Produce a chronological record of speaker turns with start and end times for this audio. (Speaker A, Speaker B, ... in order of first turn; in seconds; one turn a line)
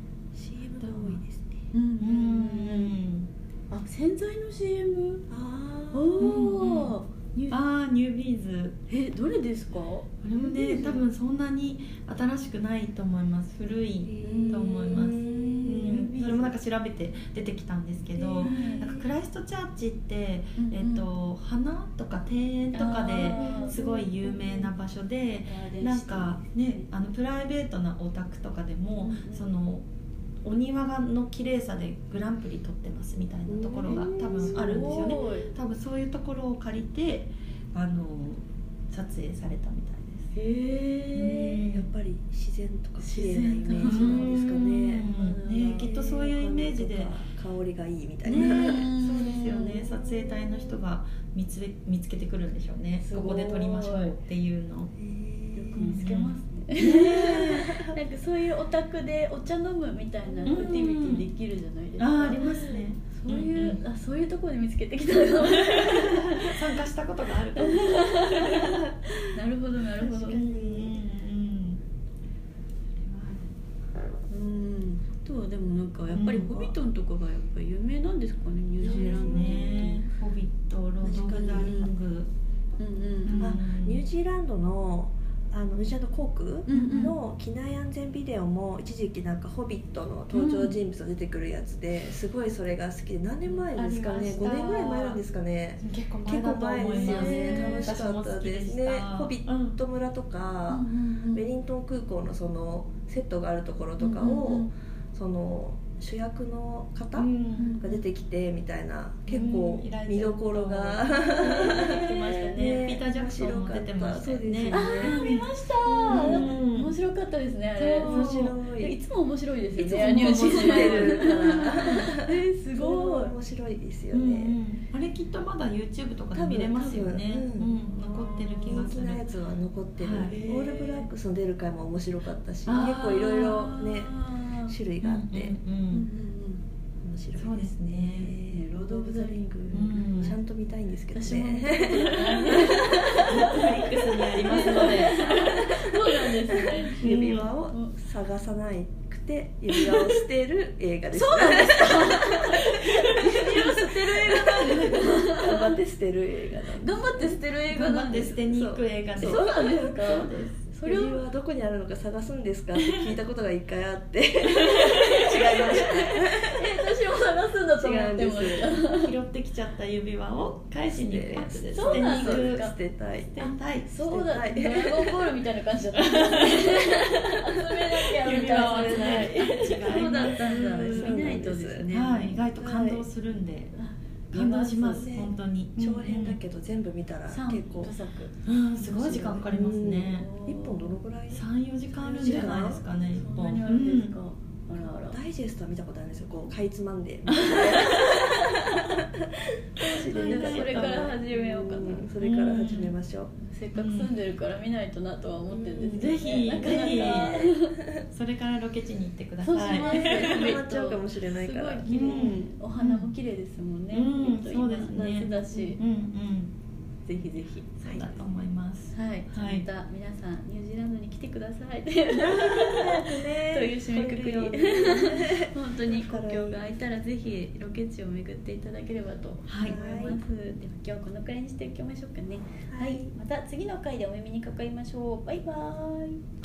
Speaker A: 0.3-1.7
Speaker B: 0.8-1.2
Speaker C: 1.7-3.0
Speaker B: 2.0-3.3
Speaker C: 3.7-5.3
Speaker A: 5.3-6.4
Speaker C: 5.9-7.6
Speaker B: 6.2-7.0
Speaker B: 7.5-8.8
Speaker C: 8.9-10.1
Speaker B: 10.2-29.9
Speaker A: 10.3-11.1
Speaker A: 14.0-16.0
Speaker C: 14.2-16.6
Speaker A: 18.2-19.1
Speaker C: 18.4-18.9
Speaker C: 20.6-21.1
Speaker C: 22.7-23.8
Speaker A: 23.2-24.7
Speaker C: 25.5-26.6
Speaker C: 29.0-29.5
Speaker B: 30.4-40.3
Speaker A: 33.5-35.1
Speaker C: 33.9-35.5
Speaker C: 40.3-41.6
Speaker B: 41.2-41.9
Speaker A: 41.3-45.1
Speaker C: 43.0-46.0
Speaker B: 43.8-47.2
Speaker A: 45.9-50.8
Speaker C: 48.3-49.8
Speaker B: 48.3-54.9
Speaker C: 53.0-54.1
Speaker A: 55.0-56.0
Speaker C: 55.5-66.7
Speaker B: 55.8-57.8
Speaker A: 57.5-57.9
Speaker B: 60.5-61.2
Speaker B: 62.0-63.8
Speaker B: 65.4-68.9
Speaker C: 67.5-70.5
Speaker A: 70.0-70.9
Speaker B: 70.2-71.8
Speaker B: 73.0-73.5
Speaker C: 74.3-80.1
Speaker B: 76.1-76.7
Speaker B: 78.8-82.3
Speaker A: 79.0-79.8
Speaker C: 81.0-81.9
Speaker A: 81.0-81.8
Speaker C: 82.8-83.6
Speaker B: 83.2-84.1
Speaker A: 83.4-115.2
Speaker C: 86.7-87.2
Speaker B: 86.7-87.2
Speaker B: 90.3-90.8
Speaker B: 93.5-95.2
Speaker B: 95.8-99.8
Speaker C: 96.9-98.0
Speaker C: 100.7-101.5
Speaker C: 104.0-104.7
Speaker B: 107.2-107.8
Speaker C: 107.6-108.0
Speaker B: 109.3-115.5
Speaker C: 111.4-112.6
Speaker C: 114.7-123.3
Speaker A: 115.8-116.6
Speaker B: 116.1-117.0
Speaker B: 117.8-118.6
Speaker A: 118.0-119.0
Speaker A: 119.7-124.6
Speaker B: 120.0-122.1
Speaker B: 124.1-129.3
Speaker A: 126.3-135.6
Speaker B: 130.0-130.4
Speaker C: 130.2-131.1
Speaker B: 132.7-133.4
Speaker C: 132.7-134.7
Speaker B: 135.0-136.1
Speaker C: 135.9-136.6
Speaker A: 137.0-143.1
Speaker B: 137.4-138.3
Speaker C: 138.5-140.3
Speaker B: 139.7-140.4
Speaker C: 141.1-147.1
Speaker B: 142.0-145.3
Speaker A: 144.6-157.4
Speaker B: 147.0-147.5
Speaker C: 147.7-147.9
Speaker C: 151.1-155.8
Speaker B: 152.7-155.1
Speaker C: 156.7-158.4
Speaker B: 157.7-160.8
Speaker A: 158.5-166.9
Speaker C: 159.2-161.3
Speaker B: 164.6-166.1
Speaker C: 165.3-169.1
Speaker A: 167.8-168.8
Speaker B: 168.9-172.7
Speaker A: 170.9-175.4
Speaker C: 171.7-172.7
Speaker B: 173.3-173.9
Speaker C: 173.9-182.4
Speaker B: 176.0-176.9
Speaker A: 176.7-181.9
Speaker B: 178.2-183.7
Speaker A: 182.6-183.1
Speaker C: 183.8-184.8
Speaker B: 184.3-186.4
Speaker A: 184.7-187.9
Speaker C: 187.3-191.0
Speaker B: 188.4-190.3
Speaker A: 189.5-191.4
Speaker B: 191.3-194.2
Speaker A: 192.0-192.8
Speaker C: 192.1-195.2
Speaker A: 194.8-199.1
Speaker B: 197.3-198.2
Speaker A: 199.8-203.3
Speaker B: 199.8-201.2
Speaker C: 199.9-202.1
Speaker B: 202.2-202.9
Speaker C: 203.4-207.8
Speaker B: 203.8-204.1
Speaker B: 205.8-210.6
Speaker A: 206.6-207.5
Speaker C: 209.4-215.8
Speaker A: 209.7-212.6
Speaker B: 211.9-213.1
Speaker B: 213.9-216.5
Speaker C: 217.1-217.7
Speaker B: 217.8-219.7
Speaker A: 217.9-218.2
Speaker C: 218.9-236.2
Speaker A: 222.1-226.7
Speaker B: 229.5-229.8
Speaker A: 229.6-230.2
Speaker A: 232.7-233.2